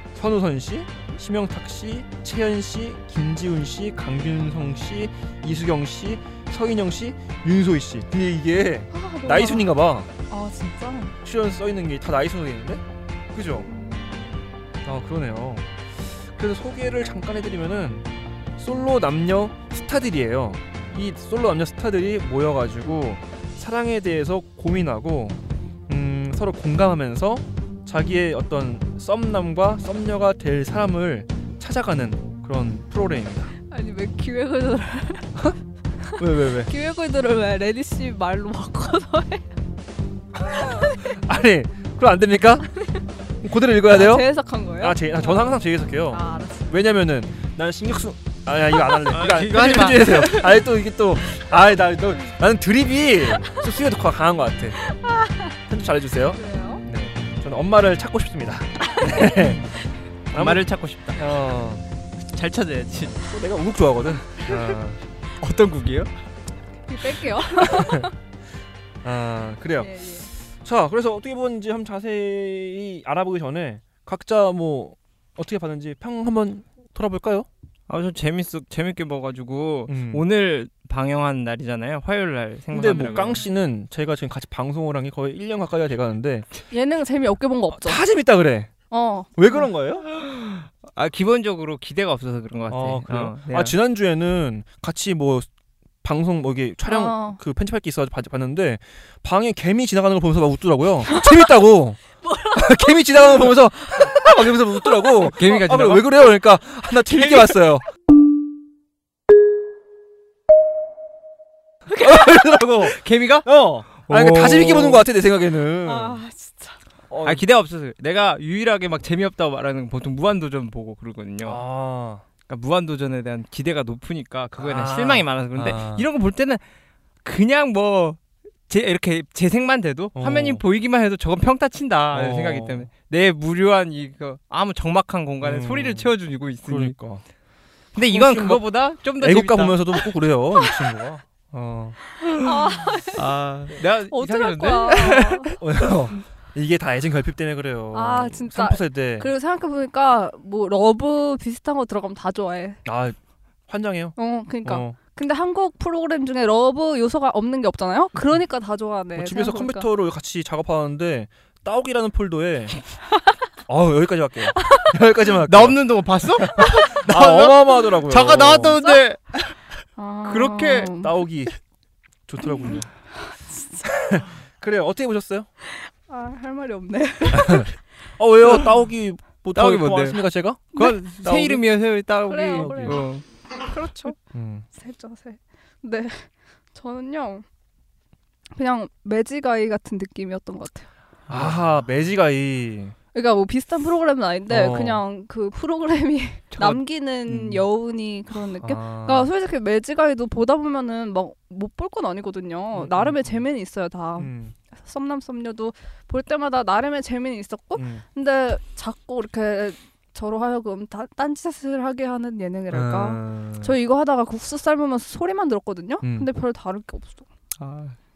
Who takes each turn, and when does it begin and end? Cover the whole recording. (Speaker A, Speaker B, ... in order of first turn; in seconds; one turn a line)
Speaker A: 0.1-10.1
Speaker B: 8.9-9.7
Speaker B: 10.3-11.2
Speaker A: 11.2-13.7
Speaker B: 13.7-14.3
Speaker A: 14.8-33.5
Speaker B: 33.7-35.3
Speaker B: 36.1-39.5
Speaker A: 36.2-36.7
Speaker A: 40.9-42.7
Speaker A: 43.4-54.8
Speaker B: 43.9-45.6
Speaker B: 46.1-46.8
Speaker C: 49.1-50.5
Speaker B: 54.9-55.5
Speaker A: 55.7-59.7
Speaker B: 56.3-56.8
Speaker A: 60.3-61.8
Speaker C: 60.3-61.2
Speaker C: 62.3-63.2
Speaker A: 63.3-65.0
Speaker C: 65.4-66.1
Speaker B: 66.9-68.1
Speaker A: 67.6-68.1
Speaker A: 69.0-77.5
Speaker B: 69.8-70.3
Speaker C: 77.9-83.4
Speaker A: 79.9-80.2
Speaker A: 82.7-86.5
Speaker B: 86.7-88.0
Speaker A: 87.7-88.7
Speaker B: 88.9-89.7
Speaker A: 89.4-90.1
Speaker C: 90.1-93.8
Speaker A: 92.7-95.5
Speaker A: 96.0-102.0
Speaker B: 96.9-97.4
Speaker B: 102.2-103.0
Speaker A: 102.5-107.8
Speaker C: 105.2-106.3
Speaker C: 107.2-107.5
Speaker A: 112.0-116.2
Speaker C: 112.8-115.0
Speaker B: 115.8-116.8
Speaker A: 117.1-117.4
Speaker C: 117.2-121.6
Speaker A: 121.4-122.2
Speaker C: 122.5-126.6
Speaker A: 124.6-126.1
Speaker C: 127.2-137.0
Speaker A: 130.2-130.6
Speaker A: 132.1-132.9
Speaker A: 135.4-136.1
Speaker A: 136.7-137.2
Speaker C: 137.9-140.1
Speaker A: 138.0-142.0
Speaker B: 142.4-143.2
Speaker C: 143.1-145.6
Speaker B: 144.1-145.6
Speaker A: 145.6-149.3
Speaker B: 147.9-152.8
Speaker A: 152.8-153.2
Speaker A: 153.7-155.0
Speaker B: 154.2-159.9
Speaker A: 159.2-162.8
Speaker A: 163.7-165.8
Speaker C: 165.5-169.6
Speaker A: 166.4-168.8
Speaker B: 170.0-171.1
Speaker C: 170.3-170.9
Speaker A: 171.0-171.5
Speaker A: 172.3-172.9
Speaker B: 172.7-173.8
Speaker A: 173.8-175.5
Speaker B: 175.7-177.7
Speaker A: 177.3-181.7
Speaker C: 179.6-183.2
Speaker B: 182.3-184.2
Speaker A: 182.6-183.0
Speaker A: 184.3-184.7
Speaker B: 184.7-187.4
Speaker B: 188.6-190.9
Speaker C: 191.3-191.6
Speaker A: 191.3-192.9
Speaker B: 193.1-217.3
Speaker A: 194.5-195.0
Speaker C: 196.5-196.8
Speaker A: 197.3-197.6
Speaker A: 198.6-199.3
Speaker A: 202.7-203.5
Speaker A: 204.2-204.6
Speaker A: 207.8-208.0
Speaker A: 212.7-213.8
Speaker A: 216.0-216.3
Speaker C: 217.6-218.0